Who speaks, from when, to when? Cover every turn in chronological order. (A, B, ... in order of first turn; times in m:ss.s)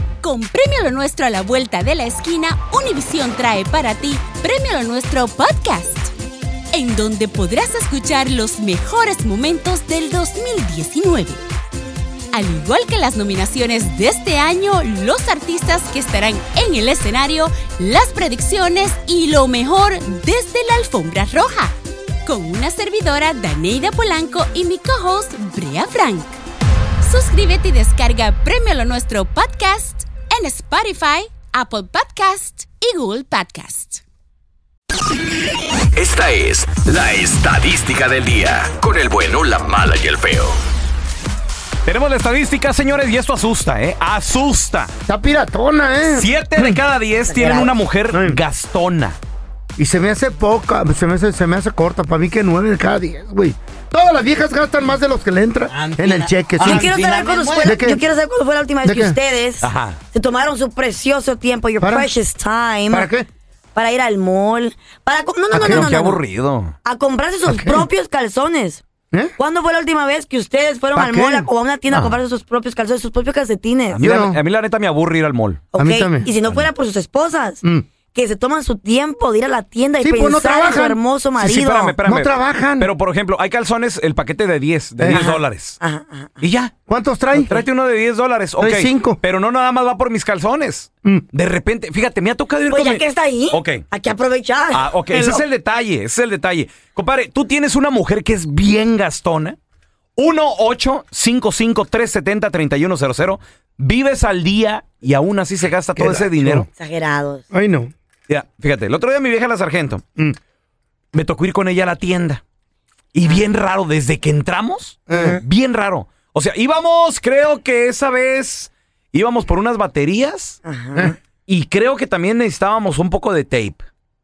0:00.2-0:06.1 A
0:06.7-0:11.4 A
0:12.3-0:21.7 A
0:22.2-0:26.4 A
0:27.0-0:34.0 A
0:35.9-0:40.6 B
0:41.8-0:44.9 C
0:45.1-0:46.8 D
0:46.0-0:49.2 C
0:47.3-0:47.7 E
0:48.1-0:48.4 D
0:49.8-0:56.9 D
0:55.7-0:57.8 C
0:56.6-1:03.1 E
0:57.6-0:58.0 D
0:58.8-0:59.2 D
0:59.6-1:00.0 C
1:01.8-1:02.1 D
1:02.9-1:03.3 D
1:03.7-1:06.2 E
1:05.5-1:05.9 D
1:05.6-1:06.8 C
1:06.8-1:08.8 E
1:07.4-1:07.9 D
1:09.4-1:14.0 E
1:10.9-1:12.2 D
1:13.9-1:15.6 C
1:14.0-1:14.4 D
1:15.7-1:17.6 E
1:15.7-1:16.3 D
1:17.6-1:17.9 D
1:18.1-1:22.0 E
1:20.0-1:21.0 D
1:21.4-1:25.8 C
1:22.0-1:22.9 D
1:25.0-1:25.2 D
1:25.1-1:26.4 E
1:26.4-1:26.7 C
1:26.9-1:27.6 D
1:27.3-1:33.9 C
1:28.6-1:29.2 D
1:32.7-1:35.4 E
1:34.7-1:39.6 C
1:40.2-1:46.7 C
1:45.9-1:46.7 D
1:46.7-1:47.4 E
1:47.5-1:47.9 D
1:48.3-1:50.0 C
1:51.1-1:52.4 C
1:53.1-2:00.6 C
1:55.1-1:55.4 D
1:55.1-1:55.4 E
2:00.6-2:01.2 E
2:01.5-2:03.8 C